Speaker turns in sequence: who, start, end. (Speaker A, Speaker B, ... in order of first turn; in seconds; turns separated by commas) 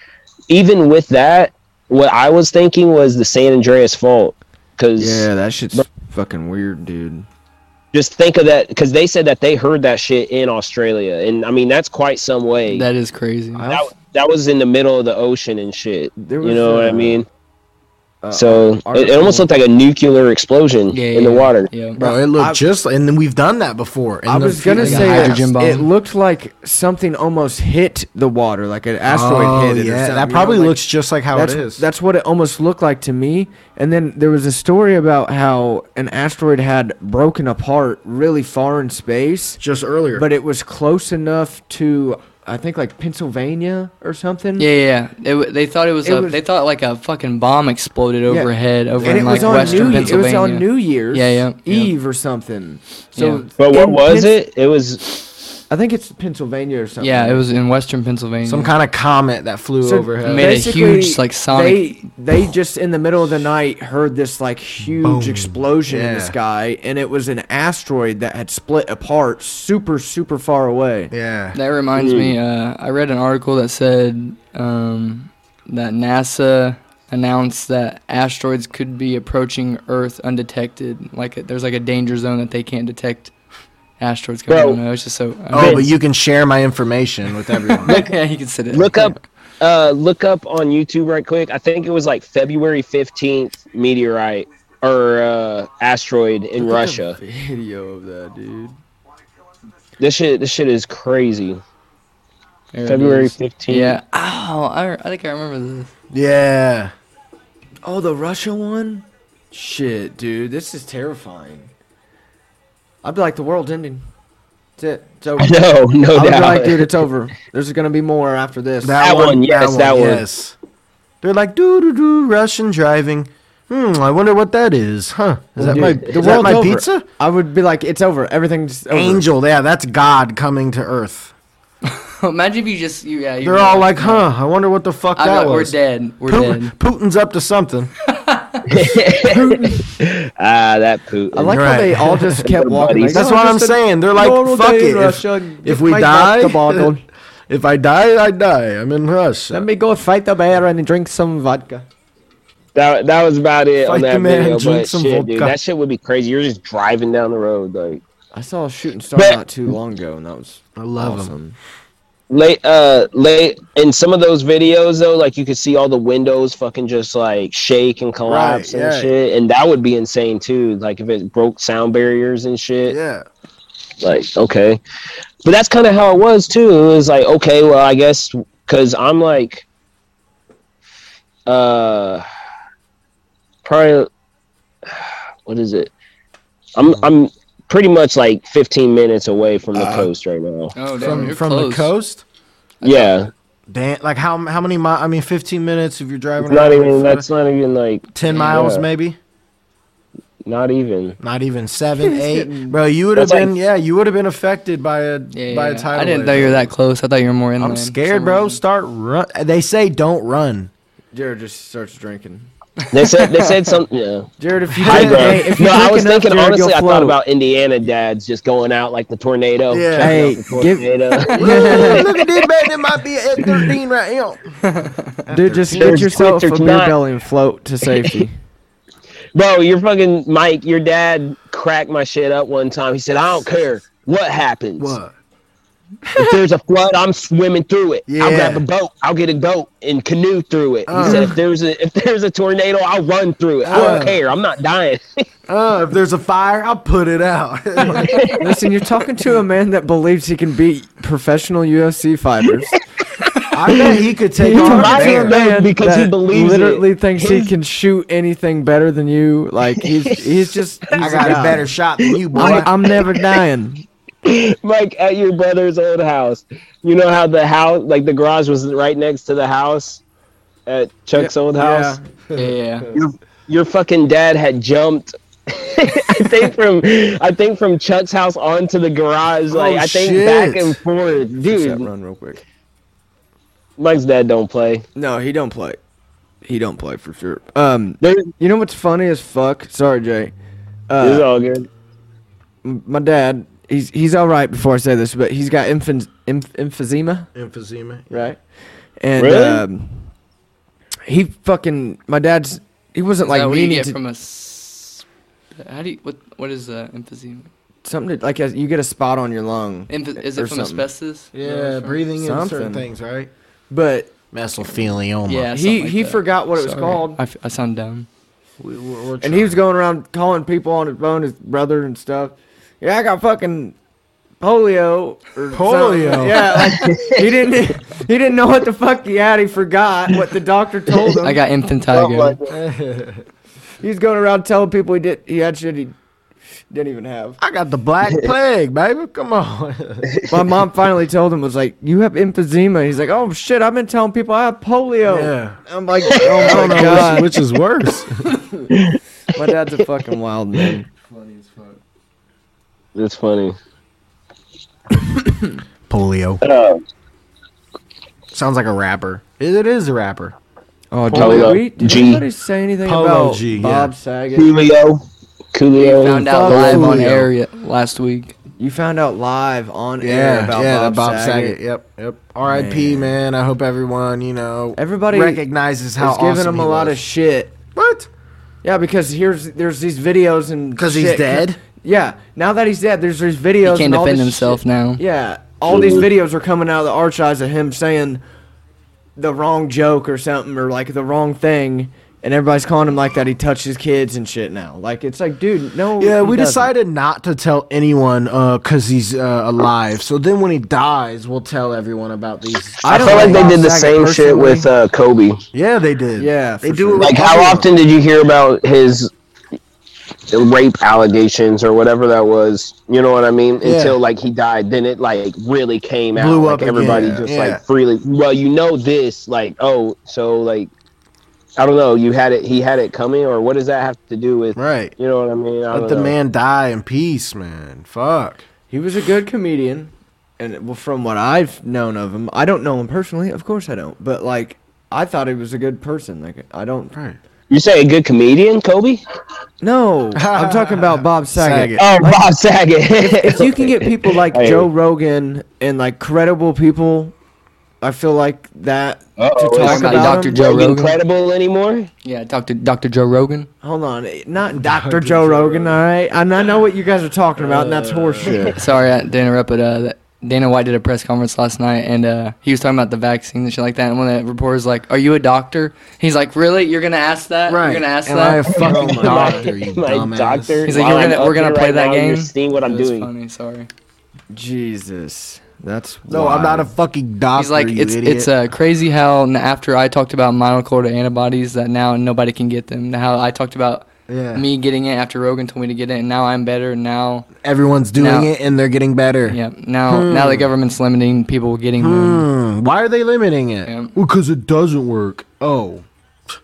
Speaker A: 0.5-5.8, Speaker B: 5.0-7.3, Speaker A: 7.9-12.9, Speaker C: 12.7-13.6, Speaker B: 13.5-13.9, Speaker A: 13.7-17.3, Speaker B: 16.2-17.2, Speaker B: 18.2-19.5, Speaker A: 18.3-21.7, Speaker C: 20.9-22.0, Speaker B: 22.0-22.6, Speaker D: 22.0-25.5, Speaker B: 24.2-30.8, Speaker C: 24.7-25.9, Speaker D: 29.1-31.8, Speaker B: 31.3-39.6, Speaker D: 39.6-40.3, Speaker B: 40.1-44.7, Speaker C: 44.6-51.9, Speaker B: 46.0-46.4, Speaker B: 48.3-54.3, Speaker D: 49.0-50.2, Speaker C: 53.1-53.4, Speaker A: 53.6-55.2, Speaker B: 55.7-57.4, Speaker C: 57.0-58.7, Speaker D: 58.4-60.6, Speaker B: 59.8-71.1, Speaker C: 60.2-61.9, Speaker D: 65.0-66.3, Speaker D: 71.1-71.6, Speaker C: 71.5-83.3, Speaker A: 72.0-72.3, Speaker C: 84.0-85.9, Speaker A: 84.5-84.8, Speaker D: 85.5-88.0, Speaker A: 85.5-85.9, Speaker C: 87.6-89.2, Speaker A: 87.8-88.1, Speaker A: 88.7-97.2, Speaker B: 96.6-98.8, Speaker A: 100.0-101.6, Speaker C: 102.7-105.9, Speaker A: 102.8-104.0, Speaker D: 106.1-106.9, Speaker B: 107.8-111.7, Speaker B: 113.0-114.0, Speaker B: 114.8-115.6, Speaker A: 115.4-116.9, Speaker B: 116.1-119.0, Speaker D: 118.8-120.5, Speaker A: 119.0-120.2, Speaker D: 121.2-127.0, Speaker B: 125.6-129.3, Speaker A: 125.6-126.5, Speaker D: 128.9-131.3, Speaker C: 131.8-134.3, Speaker D: 133.4-137.9, Speaker C: 135.2-136.7, Speaker C: 138.1-138.7, Speaker A: 138.7-141.6, Speaker B: 139.2-139.9, Speaker B: 141.3-147.0, Speaker D: 141.5-142.4, Speaker A: 142.4-143.2, Speaker D: 143.1-146.9, Speaker D: 147.5-149.7, Speaker B: 149.5-151.8, Speaker A: 152.7-158.0, Speaker D: 153.8-155.6, Speaker B: 158.3-161.6, Speaker D: 160.8-161.3, Speaker A: 162.3-173.0, Speaker D: 168.2-169.1, Speaker D: 172.8-173.2, Speaker A: 174.0-174.8, Speaker A: 175.4-179.7, Speaker A: 181.5-182.2, Speaker A: 183.6-184.1, Speaker A: 184.9-185.9, Speaker A: 186.8-191.2, Speaker C: 190.8-191.9, Speaker D: 191.0-192.2, Speaker A: 192.8-193.3, Speaker D: 193.7-197.2, Speaker A: 196.4-198.8, Speaker D: 198.1-199.2, Speaker C: 198.3-198.7, Speaker A: 200.4-201.2, Speaker D: 201.2-206.7, Speaker B: 202.0-202.8, Speaker A: 203.1-203.5, Speaker C: 205.3-208.6, Speaker D: 207.6-210.7, Speaker B: 211.1-212.5, Speaker C: 212.8-213.8, Speaker A: 212.9-214.3, Speaker B: 214.4-217.2, Speaker D: 214.7-215.6, Speaker A: 214.8-222.5, Speaker D: 219.7-220.2, Speaker B: 220.0-222.1, Speaker D: 221.3-224.4, Speaker A: 223.4-223.7, Speaker C: 224.7-225.1, Speaker D: 225.2-226.1, Speaker B: 225.3-228.3, Speaker A: 225.7-226.9, Speaker A: 229.3-235.0, Speaker D: 234.8-235.1, Speaker A: 236.2-245.2, Speaker D: 238.1-238.6, Speaker D: 240.9-241.3, Speaker B: 241.0-241.3, Speaker D: 243.6-244.2, Speaker B: 243.7-244.0, Speaker D: 245.5-248.2, Speaker A: 247.9-248.4, Speaker B: 248.3-252.7, Speaker D: 253.5-255.4, Speaker A: 253.7-254.0, Speaker B: 254.4-261.6, Speaker A: 254.5-257.5, Speaker A: 260.9-263.2, Speaker D: 260.9-262.7, Speaker B: 262.3-263.8, Speaker A: 264.2-270.0, Speaker A: 270.6-272.0, Speaker B: 271.1-272.0, Speaker D: 272.3-273.0, Speaker C: 272.3-272.9, Speaker A: 272.9-281.9, Speaker D: 279.5-280.8, Speaker B: 281.4-282.4, Speaker A: 283.8-284.8, Speaker B: 284.9-285.8, Speaker B: 286.4-290.3, Speaker A: 288.0-288.3, Speaker B: 290.9-291.3, Speaker A: 291.0-291.7, Speaker B: 292.6-297.3, Speaker D: 297.3-298.3, Speaker B: 298.1-298.4, Speaker B: 299.0-300.1, Speaker A: 299.2-299.6, Speaker B: 301.1-304.0, Speaker C: 303.2-305.0, Speaker C: 305.6-307.5, Speaker B: 307.8-310.9, Speaker C: 309.9-312.0, Speaker D: 311.3-313.3, Speaker B: 312.1-312.9, Speaker B: 313.7-314.1, Speaker D: 314.3-315.5, Speaker C: 315.2-318.1, Speaker B: 315.5-317.2, Speaker D: 318.6-319.6, Speaker B: 319.2-323.8, Speaker B: 324.4-331.4, Speaker D: 325.5-326.6, Speaker A: 326.5-327.2, Speaker C: 331.2-332.4, Speaker A: 331.9-332.5, Speaker D: 332.5-333.2, Speaker B: 333.8-335.9, Speaker B: 336.7-337.4, Speaker D: 337.4-340.1, Speaker B: 340.3-347.3, Speaker D: 345.1-348.3, Speaker A: 346.2-347.1, Speaker A: 348.7-349.0, Speaker B: 349.3-350.9, Speaker D: 351.1-351.8, Speaker A: 352.9-353.6, Speaker D: 355.9-356.4, Speaker A: 356.4-356.8, Speaker D: 358.3-360.3, Speaker B: 360.9-364.5, Speaker D: 361.1-361.6, Speaker A: 361.1-362.2, Speaker D: 362.8-363.9, Speaker A: 364.3-365.0, Speaker A: 365.5-367.0, Speaker C: 365.8-368.3, Speaker B: 366.1-367.1, Speaker D: 366.7-367.3, Speaker B: 368.6-371.6, Speaker D: 370.0-377.0, Speaker B: 372.4-373.2, Speaker B: 374.8-375.4, Speaker B: 376.0-377.6, Speaker D: 377.7-378.1, Speaker B: 378.6-388.2, Speaker D: 380.8-381.6, Speaker C: 383.6-385.0, Speaker A: 385.7-386.1, Speaker B: 389.2-396.7, Speaker D: 396.0-404.6, Speaker B: 402.8-404.5, Speaker A: 402.9-405.4, Speaker D: 405.5-407.7, Speaker B: 406.2-407.1, Speaker A: 407.0-409.1, Speaker A: 410.3-420.7, Speaker D: 413.6-414.0, Speaker D: 416.1-417.6, Speaker A: 421.6-426.1, Speaker D: 424.6-424.9, Speaker D: 425.7-428.4, Speaker B: 428.7-436.9, Speaker D: 436.9-437.2, Speaker A: 437.5-439.0, Speaker B: 439.6-442.3, Speaker D: 440.1-441.8, Speaker A: 441.8-444.7, Speaker B: 443.0-447.1, Speaker B: 447.8-450.6, Speaker A: 449.2-451.9, Speaker C: 449.6-451.0, Speaker C: 452.0-453.5, Speaker B: 453.6-458.6, Speaker D: 454.5-455.8, Speaker D: 457.4-458.6, Speaker A: 458.1-458.6, Speaker C: 458.6-469.4, Speaker D: 467.5-470.7, Speaker A: 468.5-473.1, Speaker B: 468.6-469.5, Speaker C: 470.6-473.7, Speaker B: 474.3-476.7, Speaker D: 476.1-478.3, Speaker C: 477.4-487.3, Speaker D: 484.1-484.4, Speaker D: 487.4-490.5, Speaker C: 487.9-488.3, Speaker C: 489.2-492.2, Speaker D: 491.8-495.8, Speaker C: 493.6-493.9